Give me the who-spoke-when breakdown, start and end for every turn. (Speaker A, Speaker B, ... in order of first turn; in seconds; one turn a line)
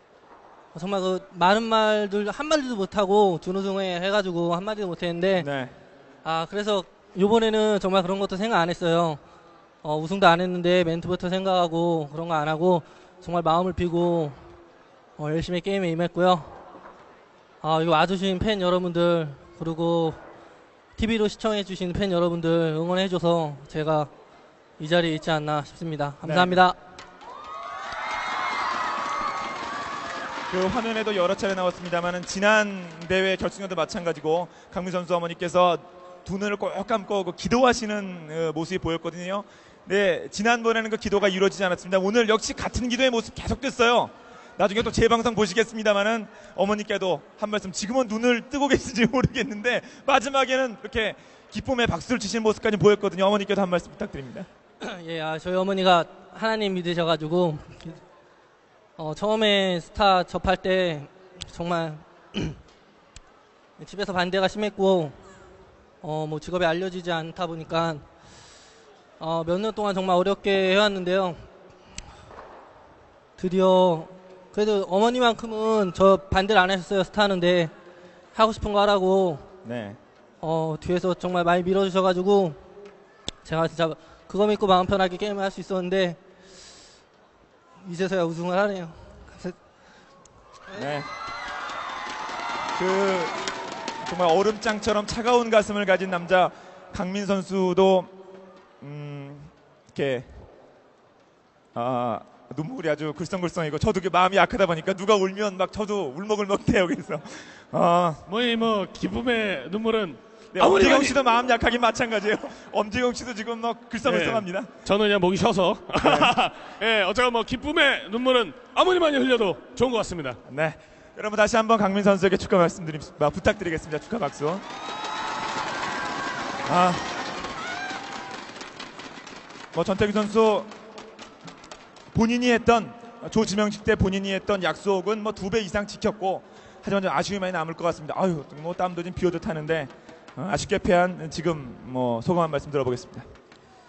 Speaker A: 0.7-5.5
Speaker B: 5.4-5.7
Speaker A: 6.2-9.2
Speaker A: 9.8-14.4
Speaker A: 15.2-16.5
Speaker A: 17.6-20.2
Speaker A: 21.0-24.1
Speaker A: 24.8-26.8
Speaker B: 26.2-26.6
Speaker B: 30.5-54.5
Speaker A: 54.8-58.0
Speaker A: 59.0-62.6
Speaker A: 63.8-65.2
Speaker A: 66.0-68.0
Speaker A: 69.2-71.4
Speaker A: 73.4-77.7
Speaker A: 78.3-79.5
Speaker B: 79.6-80.0
Speaker A: 80.4-82.6
Speaker A: 83.5-86.2
Speaker A: 87.8-89.6
Speaker B: 90.7-91.1
Speaker B: 92.8-93.3
Speaker B: 94.0-98.1
Speaker B: 98.8-100.3
Speaker B: 101.8-108.2
Speaker C: 108.3-111.2
Speaker B: 110.5-114.7
Speaker C: 114.0-120.4
Speaker B: 116.0-116.3
Speaker B: 120.5-124.6
Speaker B: 126.7-127.0
Speaker B: 129.7-130.7
Speaker B: 132.1-143.3